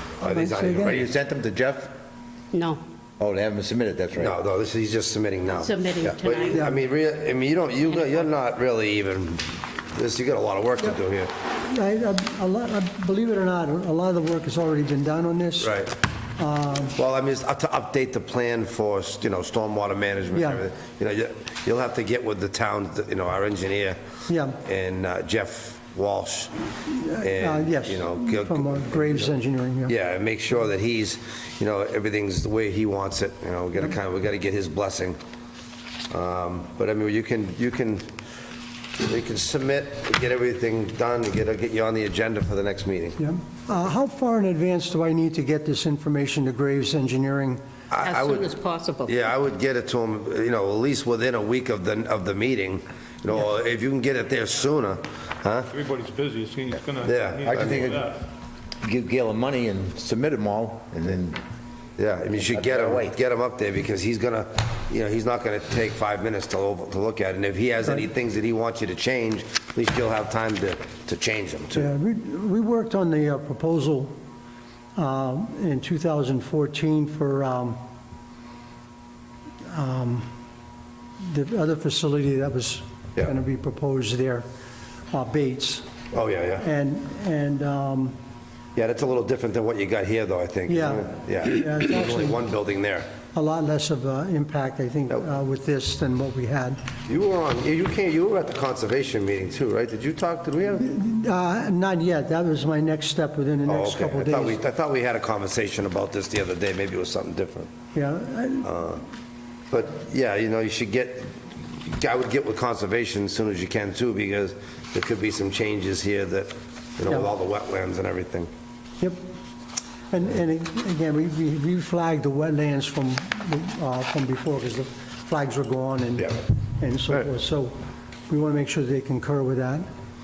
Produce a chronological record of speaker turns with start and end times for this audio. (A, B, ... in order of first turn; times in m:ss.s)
0:00.2-0:01.1 A
0:00.2-0:01.0 B
0:00.8-0:01.9 C
0:02.5-0:02.8 D
0:03.2-0:04.4 C
0:04.1-0:11.3 A
0:05.5-0:06.7 D
0:06.5-0:06.8 B
0:11.6-0:15.8 B
0:15.6-0:16.0 A
0:16.4-0:17.0 B
0:17.0-0:24.0 A
0:20.3-0:20.6 B
0:24.3-0:24.6 B
0:24.6-0:26.5 A
0:26.9-0:29.9 B
0:27.1-0:29.4 A
0:29.9-0:35.2 A
0:36.1-0:38.1 A
0:39.0-0:43.2 A
0:43.2-0:47.6 B
0:47.9-0:48.5 A
0:48.0-0:49.2 D
0:49.1-0:55.7 A
0:55.7-0:58.2 E
0:57.0-0:58.0 A
0:57.4-0:58.0 C
0:58.8-1:01.4 C
1:02.0-1:11.9 A
1:02.3-1:03.2 C
1:11.7-1:14.1 B
1:15.0-1:17.8 B
1:19.7-1:20.3 B
1:21.2-1:24.4 B
1:25.1-1:25.9 B
1:26.1-1:26.7 A
1:26.6-1:28.2 B
1:28.8-1:33.1 A
1:30.7-1:32.4 B
1:33.3-1:36.8 B
1:37.1-1:40.9 A
1:40.7-1:44.6 B
1:43.7-1:47.7 A
1:47.9-1:48.7 B
1:48.6-1:49.0 A
1:49.7-1:58.5 A
2:00.1-2:07.8 B
2:08.3-2:09.9 B